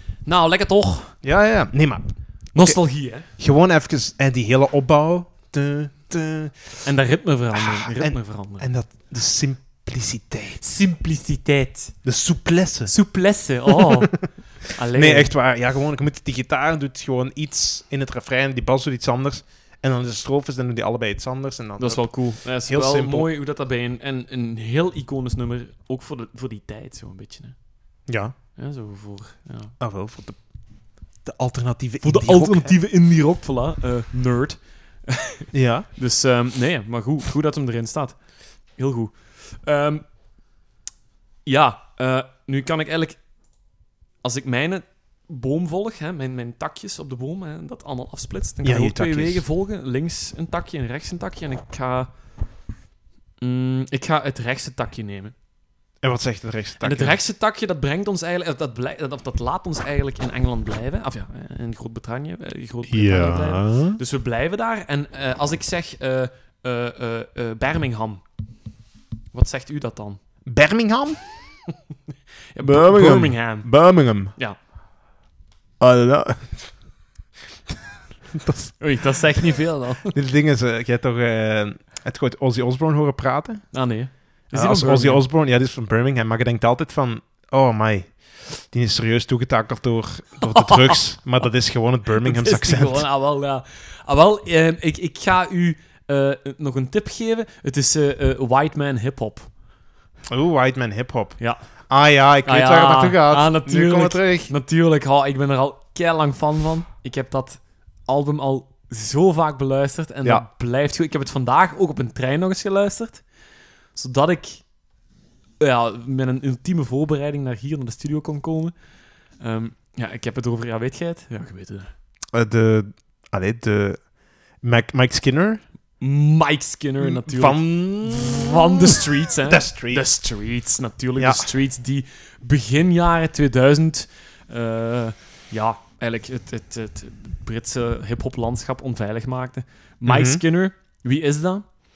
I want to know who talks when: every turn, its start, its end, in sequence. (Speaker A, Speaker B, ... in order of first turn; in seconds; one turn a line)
Speaker A: 0.3-1.1
Speaker B: 1.2-2.1
Speaker A: 2.5-3.3
Speaker B: 3.3-6.9
Speaker A: 6.8-8.7
Speaker B: 7.5-10.6
Speaker A: 10.6-12.0
Speaker B: 12.0-12.9
Speaker A: 12.9-15.3
Speaker B: 13.7-14.3
Speaker B: 14.9-23.3
Speaker A: 21.8-27.6
Speaker B: 28.1-28.4
Speaker A: 28.6-29.8
Speaker B: 29.8-30.6
Speaker B: 31.2-32.8
Speaker A: 32.0-40.1
Speaker B: 35.5-35.9
Speaker A: 41.5-43.2
Speaker A: 44.2-52.1
Speaker B: 48.6-49.4
Speaker A: 53.4-55.3
Speaker B: 56.0-57.2
Speaker A: 56.8-68.2
Speaker B: 62.9-64.0
Speaker A: 69.3-70.2
Speaker B: 70.5-71.2
Speaker A: 72.5-74.6
Speaker B: 72.6-74.3
Speaker B: 75.8-76.7
Speaker B: 78.3-78.8
Speaker A: 78.8-80.2
Speaker B: 80.1-83.7
Speaker A: 83.7-85.2
Speaker B: 84.5-93.1
Speaker A: 90.5-91.0
Speaker A: 92.2-99.5
Speaker B: 100.3-101.4
Speaker B: 101.9-104.5
Speaker A: 102.5-113.2
Speaker A: 114.0-114.7
Speaker A: 115.6-118.7
Speaker A: 119.4-121.9
Speaker B: 122.3-125.6
Speaker A: 126.0-141.7
Speaker B: 127.0-130.1
Speaker B: 131.2-131.5
Speaker B: 140.1-140.4